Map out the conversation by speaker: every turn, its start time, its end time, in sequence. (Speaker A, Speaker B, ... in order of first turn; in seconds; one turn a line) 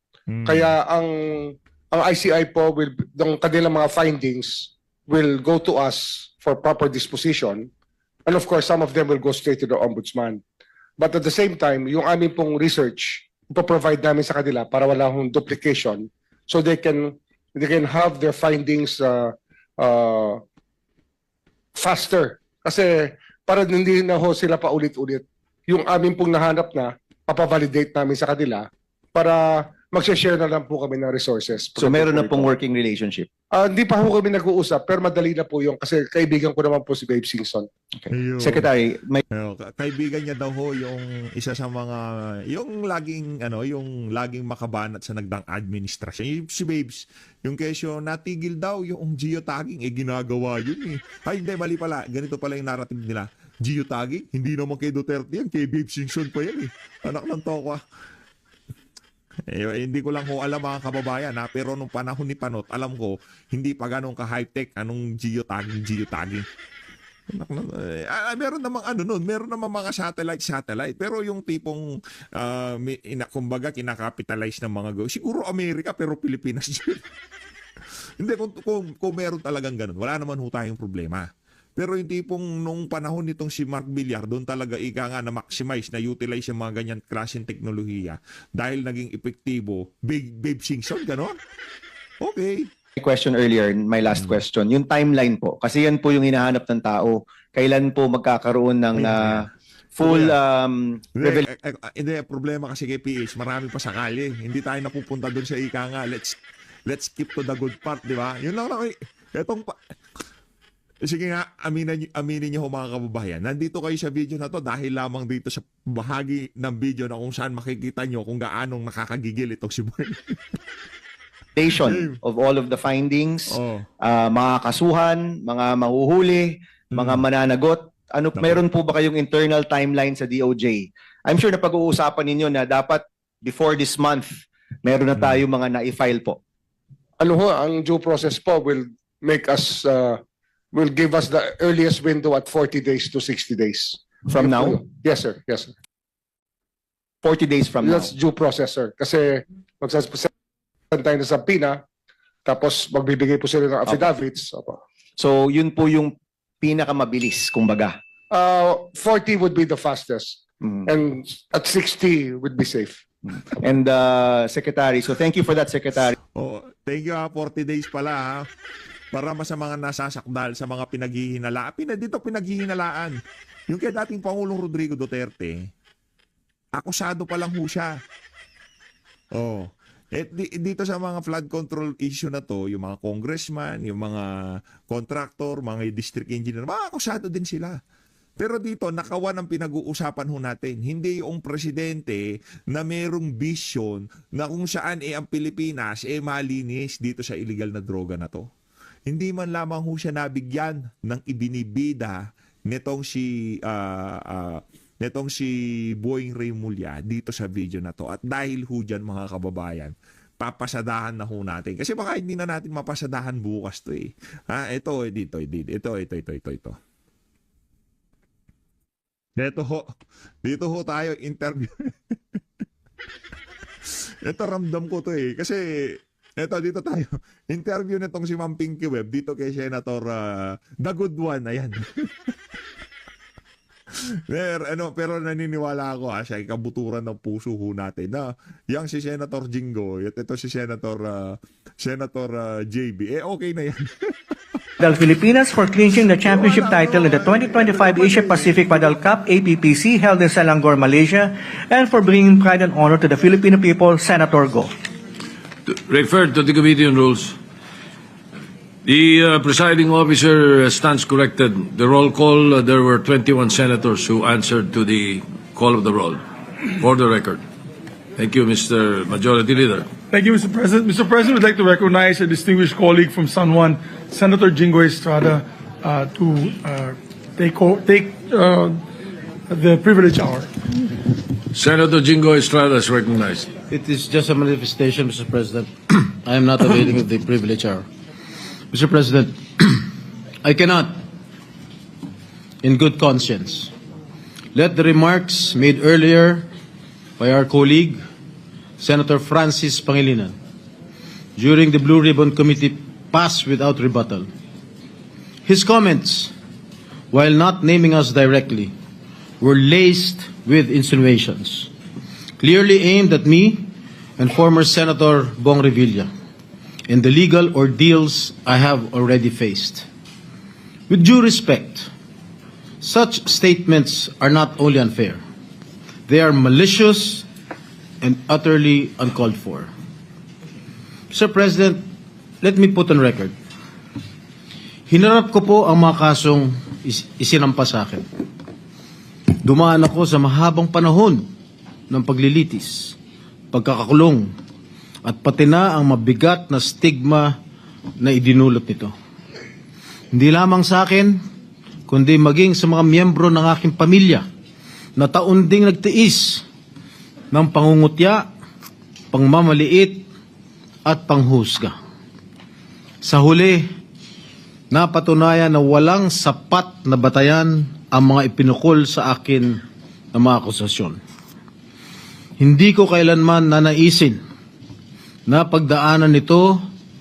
Speaker A: 0.3-0.7
Speaker B: 0.5-7.7
Speaker B: 8.3-10.4
Speaker B: 11.0-20.4
Speaker B: 21.8-32.5
Speaker C: 31.8-33.3
Speaker B: 33.5-37.7
Speaker C: 38.0-39.2
Speaker A: 38.1-38.7
Speaker A: 39.3-57.8
Speaker A: 59.5-66.5
Speaker A: 67.3-71.8
Speaker A: 72.4-77.1
Speaker A: 78.2-81.2
Speaker A: 81.8-91.3
Speaker A: 92.2-92.7
Speaker C: 93.0-99.5
Speaker A: 94.2-94.4
Speaker A: 99.0-99.5
Speaker C: 100.0-101.5
Speaker A: 100.0-100.3
Speaker A: 101.2-109.8
Speaker A: 111.0-120.6
Speaker C: 121.5-136.4
Speaker A: 121.9-122.2
Speaker A: 123.5-123.9
Speaker A: 126.9-127.2
Speaker B: 137.2-140.2
Speaker B: 140.7-145.7
Speaker C: 144.3-144.8
Speaker C: 147.2-148.1
Speaker B: 147.8-150.3
Speaker B: 150.9-151.8
Speaker B: 152.4-154.8
Speaker C: 155.2-158.0
Speaker B: 158.3-163.0
Speaker C: 163.5-166.2
Speaker A: 166.3-168.4
Speaker A: 169.1-173.2
Speaker A: 173.7-175.6
Speaker A: 176.8-177.9
Speaker A: 179.3-184.2
Speaker A: 184.9-187.8
Speaker A: 188.4-198.5
Speaker A: 199.1-216.8
Speaker A: 219.4-219.8
Speaker A: 220.4-222.4
Speaker A: 223.8-230.2
Speaker A: 230.8-232.3
Speaker A: 233.9-244.2
Speaker D: 244.8-254.7
Speaker A: 246.2-249.0
Speaker E: 255.7-257.4
Speaker E: 258.8-266.2
Speaker E: 266.8-267.4
Speaker E: 268.2-269.9
Speaker F: 270.1-278.8
Speaker F: 279.5-280.5
Speaker E: 281.5-283.5
Speaker G: 283.7-287.9
Speaker G: 288.7-289.9
Speaker G: 290.4-291.0
Speaker G: 292.6-293.7
Speaker G: 294.5-296.5
Speaker G: 297.2-298.0
Speaker G: 298.8-300.4
Speaker G: 301.4-304.3
Speaker G: 305.4-306.3
Speaker G: 307.1-308.7
Speaker G: 309.4-311.7
Speaker G: 312.4-316.1
Speaker G: 316.9-319.9
Speaker G: 320.9-321.9
Speaker G: 322.8-325.2
Speaker G: 326.1-327.3
Speaker G: 328.0-329.7
Speaker G: 331.1-331.9
Speaker G: 332.4-333.4
Speaker G: 334.9-338.1
Speaker G: 339.4-341.3
Speaker G: 341.9-343.0
Speaker G: 343.5-344.3
Speaker G: 345.0-347.4
Speaker G: 348.0-348.9
Speaker G: 350.1-351.2
Speaker G: 351.9-354.3
Speaker G: 354.9-356.4
Speaker G: 357.3-358.3
Speaker G: 359.1-360.1
Speaker G: 360.8-361.8
Speaker G: 363.0-363.7
Speaker G: 364.7-371.0
Speaker G: 372.4-374.2
Speaker G: 375.3-376.7